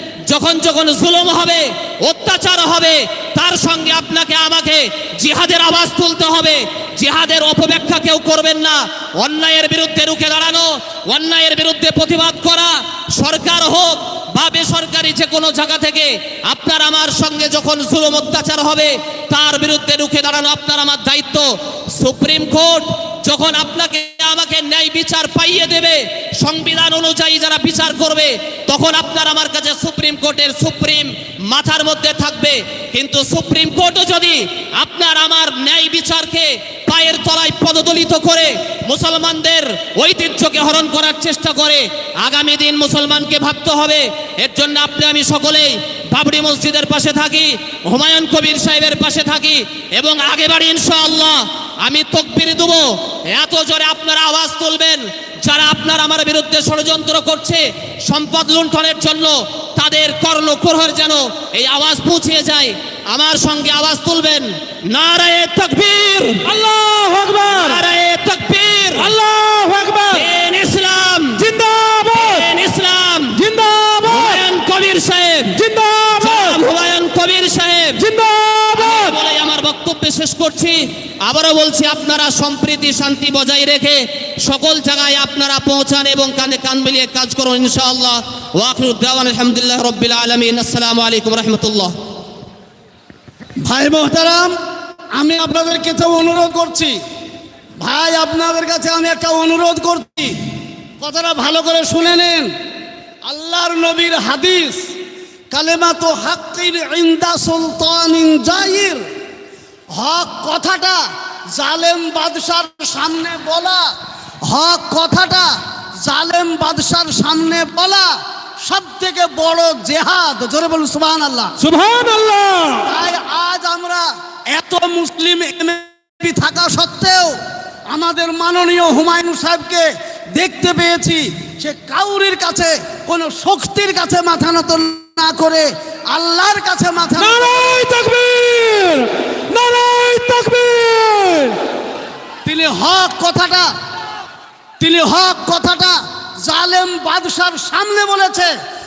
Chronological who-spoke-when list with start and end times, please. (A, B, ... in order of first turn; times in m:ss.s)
0:00.3-1:06.4 A
1:06.4-1:07.8 B
1:07.6-1:09.1 A
1:09.0-1:10.2 B
1:10.1-1:11.4 A
1:11.4-1:12.4 B
1:12.1-1:13.4 A
1:13.3-1:14.4 B
1:14.0-1:15.6 A
1:15.5-1:16.6 B
1:16.2-1:18.0 A
1:18.0-1:19.1 B
1:18.8-1:31.9 A
1:33.6-1:34.5 C
1:35.2-1:37.0 C
1:37.8-1:40.4 C
1:41.0-1:42.5 C
1:43.2-1:44.9 C
1:45.5-1:49.0 C
1:49.9-1:51.0 C
1:51.5-1:53.9 C
1:54.5-1:55.5 C
1:56.0-1:58.1 C
1:58.6-2:01.5 C
2:01.6-2:02.9 B
2:02.8-2:07.3 C
2:07.9-2:17.8 C
2:17.2-2:21.6 B
2:22.4-2:23.7 C
2:24.8-2:28.5 C